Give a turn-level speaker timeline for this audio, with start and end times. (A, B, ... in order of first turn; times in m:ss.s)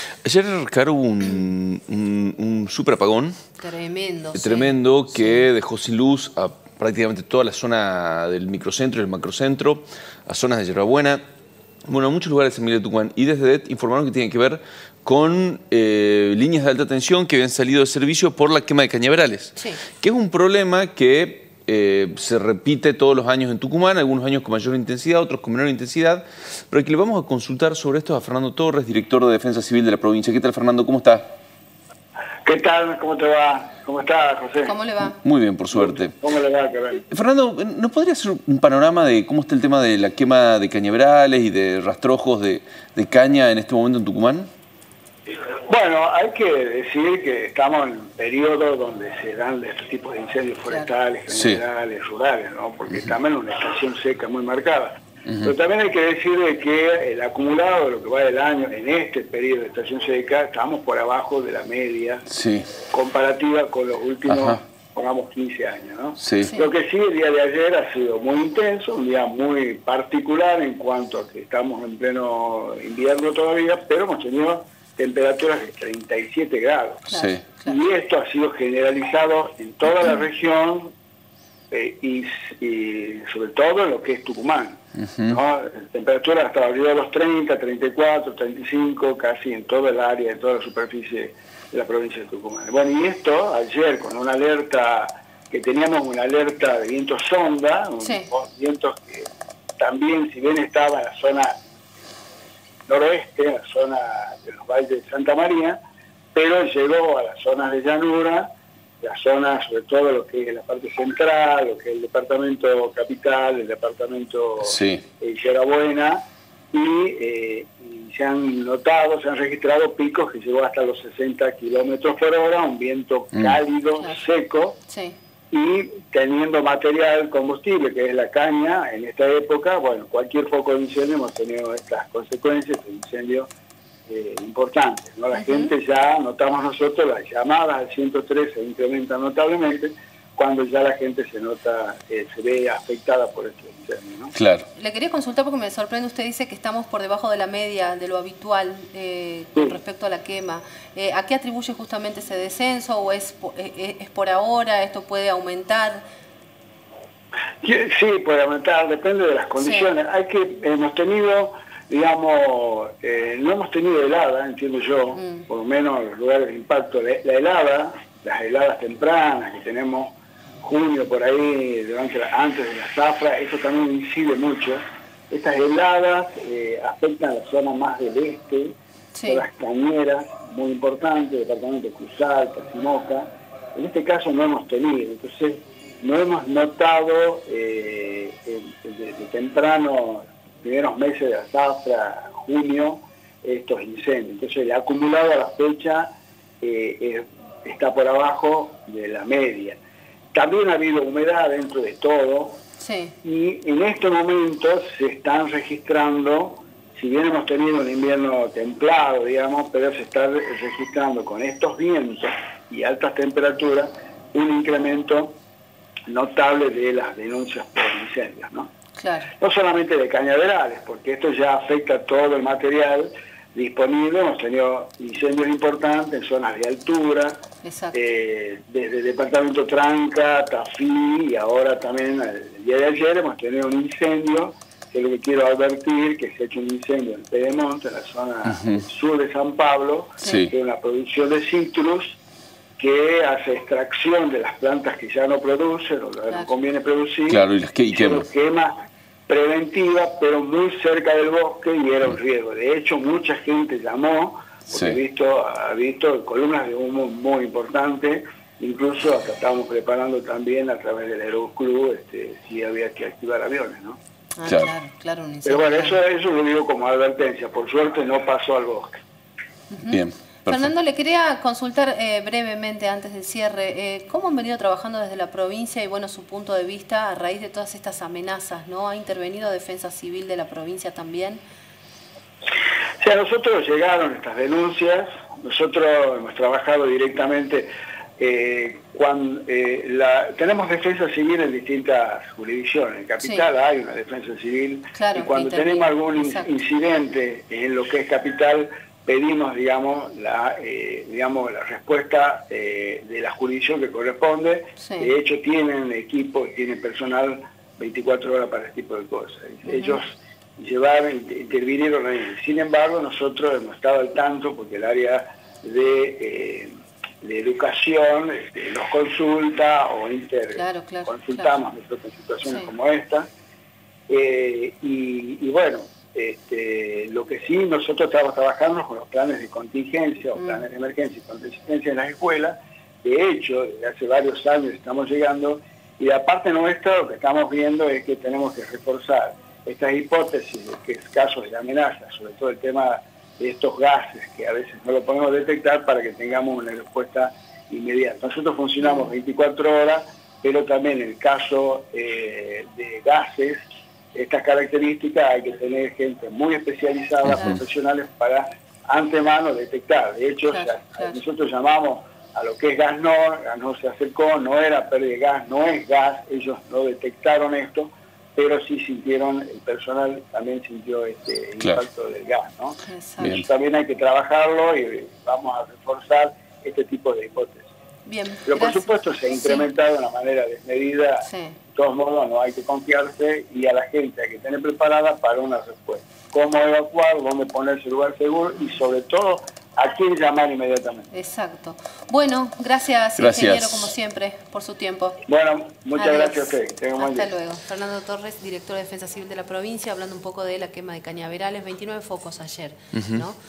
0:00.2-0:03.4 A
0:03.6-0:05.5 B
0:04.3-0:11.2 A
0:11.9-0:31.3 A
0:19.6-0:19.8 B
0:32.4-0:34.8 C
0:34.6-0:35.2 B
0:35.0-0:36.2 A
0:35.7-0:37.0 C
0:37.1-0:44.5 A
0:45.3-1:02.3 C
0:51.3-0:51.6 A
1:02.3-1:02.7 A
1:02.8-1:20.9 C
1:04.3-1:04.6 A
1:06.2-1:06.5 A
1:06.4-1:06.7 B
1:17.1-1:17.8 B
1:17.1-1:17.4 A
1:21.7-1:41.6 C
1:25.1-1:25.4 A
1:42.9-1:45.8 C
1:46.3-1:48.5 C
1:49.0-2:04.8 C
1:54.6-1:55.0 A
2:03.3-2:03.6 A
2:04.9-2:05.2 B
2:05.5-2:13.5 C
2:14.1-2:24.3 C
2:15.3-2:15.7 B
2:24.3-2:24.7 A
2:24.8-2:36.0 B
2:37.6-3:19.8 C
2:39.6-2:39.9 B
2:45.2-2:45.4 B
2:59.1-2:59.4 B
3:20.3-3:22.6 C
3:22.8-3:23.1 B
3:23.2-3:35.4 C
3:36.1-3:38.7 C
3:39.0-3:39.3 B
3:39.4-4:02.2 C
3:47.6-3:48.0 B
3:58.5-3:58.8 A
4:00.2-4:00.5 B
4:00.2-4:00.5 A
4:02.8-4:08.8 C
4:07.3-4:08.2 A
4:09.3-4:24.0 C
4:14.7-4:15.0 A
4:24.4-4:26.0 B
4:24.4-4:24.7 A
4:25.4-4:29.0 C
4:29.7-4:41.4 B
4:29.9-4:30.7 A
4:43.0-5:23.3 C
4:53.2-4:53.5 B
4:54.9-4:56.5 B
5:04.8-5:05.1 B
5:09.6-5:10.0 B
5:20.6-5:21.6 B
5:24.1-5:53.6 C
5:30.4-5:30.6 B
5:48.8-5:49.1 B
5:54.1-6:17.7 C
5:57.2-5:57.6 A
5:57.3-5:57.6 B
6:00.5-6:01.2 B
6:12.8-6:13.4 B
6:13.2-6:13.4 A
6:18.0-6:19.7 B
6:18.4-6:31.1 C
6:21.2-6:21.6 B
6:31.1-6:35.2 B
6:33.2-6:33.9 A
6:35.3-6:37.3 C
6:36.0-6:43.4 B
6:42.9-6:43.2 A